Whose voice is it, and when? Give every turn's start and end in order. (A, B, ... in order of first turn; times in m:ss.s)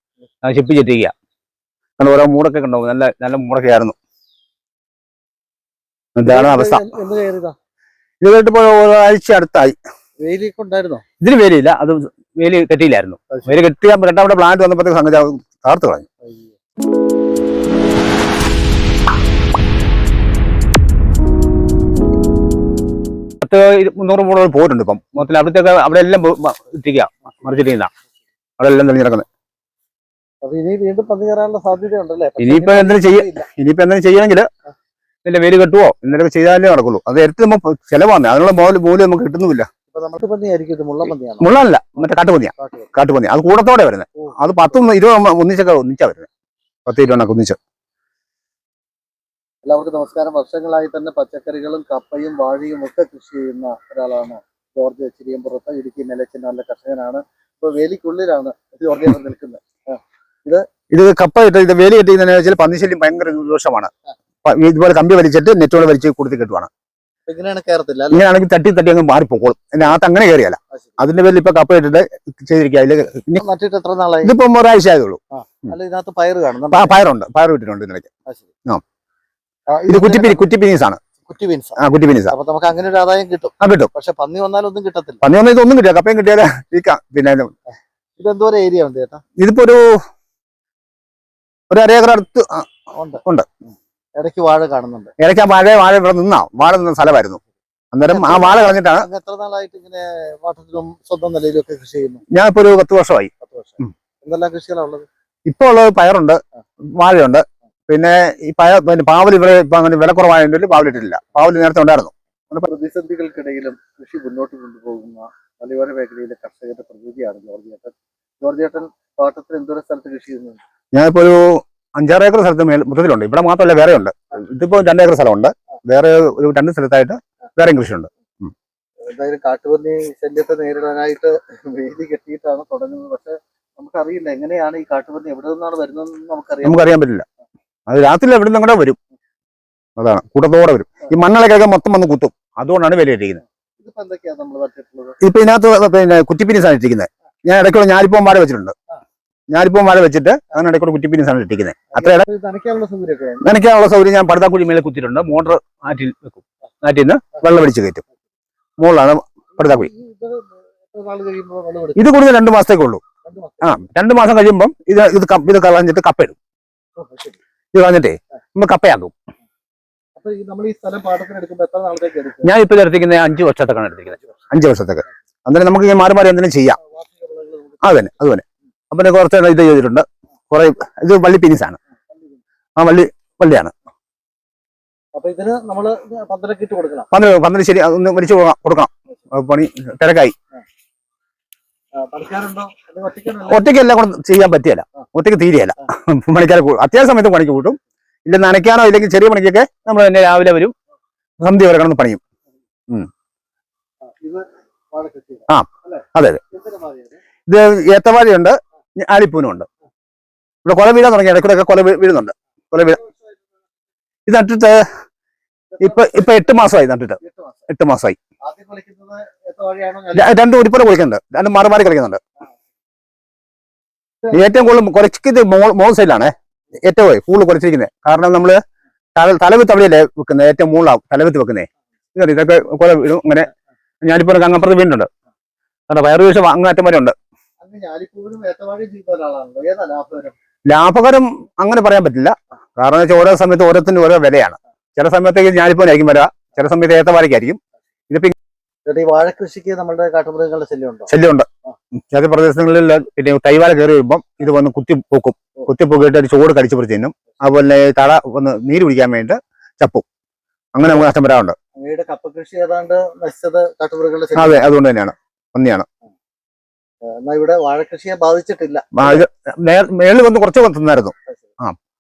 0:00.4-0:01.1 A
0:02.0-0:04.0 A
0:06.2-0:06.8 A
0:06.2-0:07.5 B
0:08.2-0:09.8 A
0:10.2-0:11.0 B
0:11.2-0:16.0 A
0:16.2-0:16.5 B
0:23.4-0:27.9 A
0:28.6-0:29.2 A
0:30.4-0:33.5 B
0:32.4-0:34.5 A
0:35.2-0:39.7 A
0:39.9-0:41.5 B
0:41.4-0:46.3 A
0:42.6-0:42.9 B
0:46.8-0:47.6 A
0:49.6-1:00.6 B
1:00.9-1:03.9 A
1:04.4-1:06.7 A
1:07.3-1:08.2 B
1:08.1-1:13.4 A
1:10.7-1:11.0 B
1:13.4-1:14.3 B
1:14.2-1:15.7 A
1:15.3-1:17.0 B
1:16.7-1:18.1 A
1:19.7-1:20.4 B
1:19.9-1:21.0 A
1:21.3-1:21.8 B
1:21.8-1:22.3 A
1:22.3-1:25.2 B
1:23.6-1:23.9 A
1:25.2-1:27.5 A
1:28.2-1:29.2 B
1:29.4-1:29.8 A
1:31.7-1:32.7 A
1:32.9-1:33.2 B
1:34.2-1:35.1 B
1:35.2-1:37.4 A
1:37.9-1:39.1 A
1:38.1-1:42.2 B
1:42.3-1:43.3 A
1:43.4-1:45.1 B
1:45.5-1:46.4 A
1:47.0-1:52.7 A
1:52.6-2:00.6 B
2:00.9-2:08.5 A
2:09.0-2:16.9 B
2:16.6-2:17.2 A
2:17.9-2:19.0 A
2:20.0-2:23.4 A
2:23.8-2:25.2 B
2:25.2-2:28.7 A
2:29.5-2:32.2 A
2:31.9-2:33.5 B
2:33.4-2:38.0 A
2:38.8-2:39.9 A
2:39.6-2:42.0 B
2:42.0-2:43.0 A
2:43.2-2:43.8 B
2:43.6-2:46.4 A
2:47.0-2:47.4 B
2:47.7-2:49.1 A
2:50.2-2:52.5 B
2:52.4-2:56.8 A
2:56.8-2:58.1 B
2:57.8-3:01.8 A
3:02.1-3:02.4 B
3:02.8-3:03.7 A
3:05.2-3:07.1 B
3:07.1-3:10.3 A
3:12.0-3:13.7 B
3:13.4-3:20.7 A
3:21.4-3:22.2 A
3:24.0-3:27.2 B
3:25.5-3:26.4 A
3:27.5-3:29.7 A
3:30.6-3:33.0 A
3:34.3-3:34.8 A
3:35.7-3:37.6 B
3:35.8-3:38.2 A
3:38.4-3:40.4 B
3:40.1-3:42.2 A
3:44.3-3:46.3 A
3:46.8-3:48.6 A
3:49.2-3:53.5 A
3:54.0-3:55.1 A
3:55.9-3:57.1 A
3:57.6-4:00.3 B
4:00.7-4:07.6 A
4:08.8-4:11.1 B
4:11.1-4:11.5 A
4:12.1-4:20.0 A
4:20.7-4:21.6 A
4:21.8-4:24.7 B
4:24.4-4:25.8 A
4:27.0-4:29.2 B
4:29.0-4:31.7 A